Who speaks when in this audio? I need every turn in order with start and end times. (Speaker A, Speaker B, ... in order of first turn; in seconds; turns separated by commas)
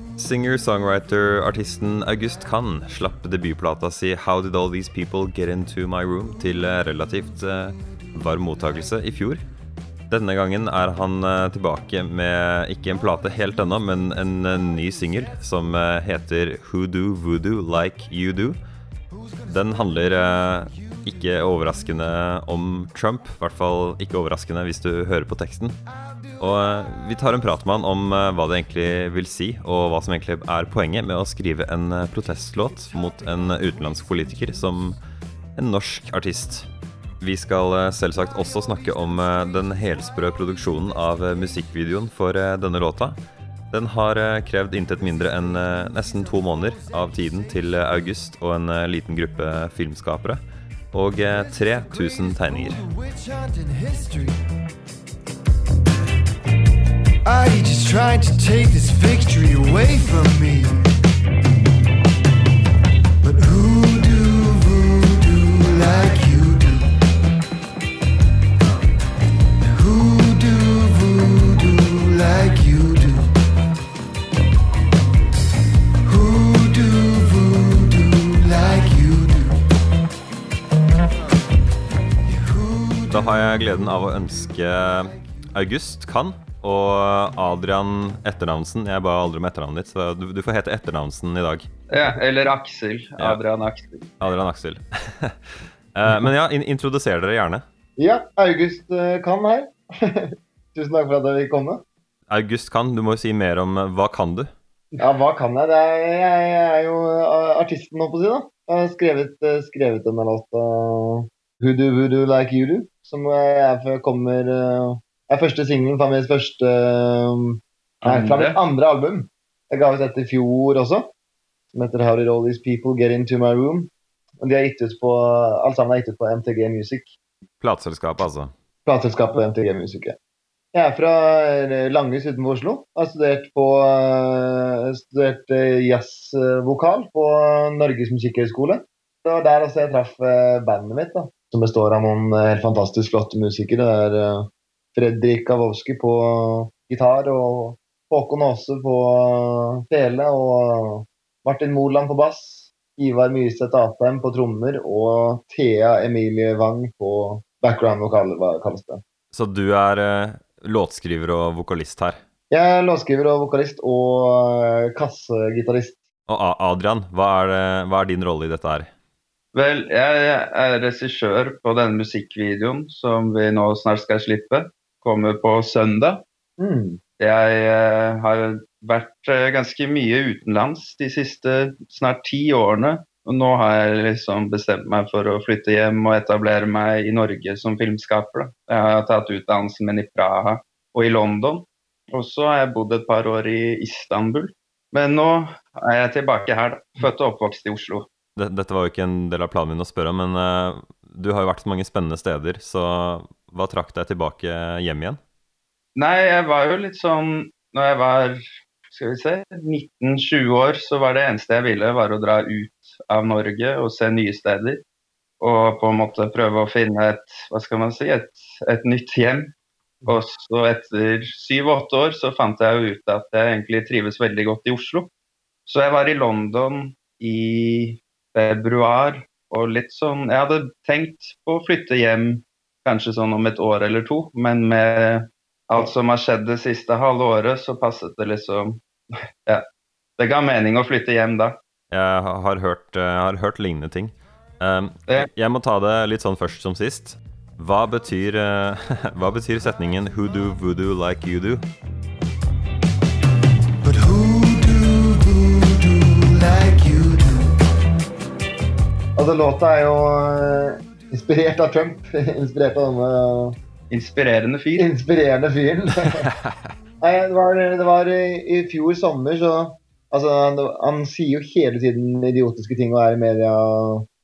Speaker A: 0.2-9.4, Speaker A: 10.1-18.6, Speaker B: 19.1-20.5, Speaker A: 19.4-25.8, Speaker A: 26.4-35.0, Speaker A: 35.5-36.7, Speaker A: 37.2-43.1, Speaker A: 43.7-52.8, Speaker B: 51.3-54.4, Speaker B: 57.2-60.9, Speaker B: 63.2-66.9, Speaker B: 69.6-73.3, Speaker B: 76.0-79.7, Speaker B: 82.2-83.5, Speaker A: 83.1-91.7, Speaker C: 91.9-94.1, Speaker A: 94.2-97.6, Speaker D: 98.0-101.8, Speaker A: 102.3-104.5, Speaker D: 105.0-121.1, Speaker C: 118.0-118.6, Speaker D: 121.7-127.1, Speaker A: 127.6-128.5, Speaker D: 128.8-130.2, Speaker D: 130.7-159.0, Speaker A: 159.3-162.2, Speaker D: 162.5-166.0, Speaker A: 166.3-168.9, Speaker C: 169.5-176.2, Speaker D: 176.6-177.0, Speaker C: 177.2-198.1, Speaker A: 198.3-205.2, Speaker C: 205.9-214.8, Speaker C: 215.4-219.5, Speaker C: 220.1-225.1, Speaker C: 225.7-238.8, Speaker C: 240.2-241.6, Speaker A: 241.9-251.6, Speaker B: 253.8-257.6, Speaker D: 259.1-263.6, Speaker C: 263.9-264.9, Speaker D: 264.8-266.3, Speaker A: 266.0-266.6, Speaker D: 267.0-274.1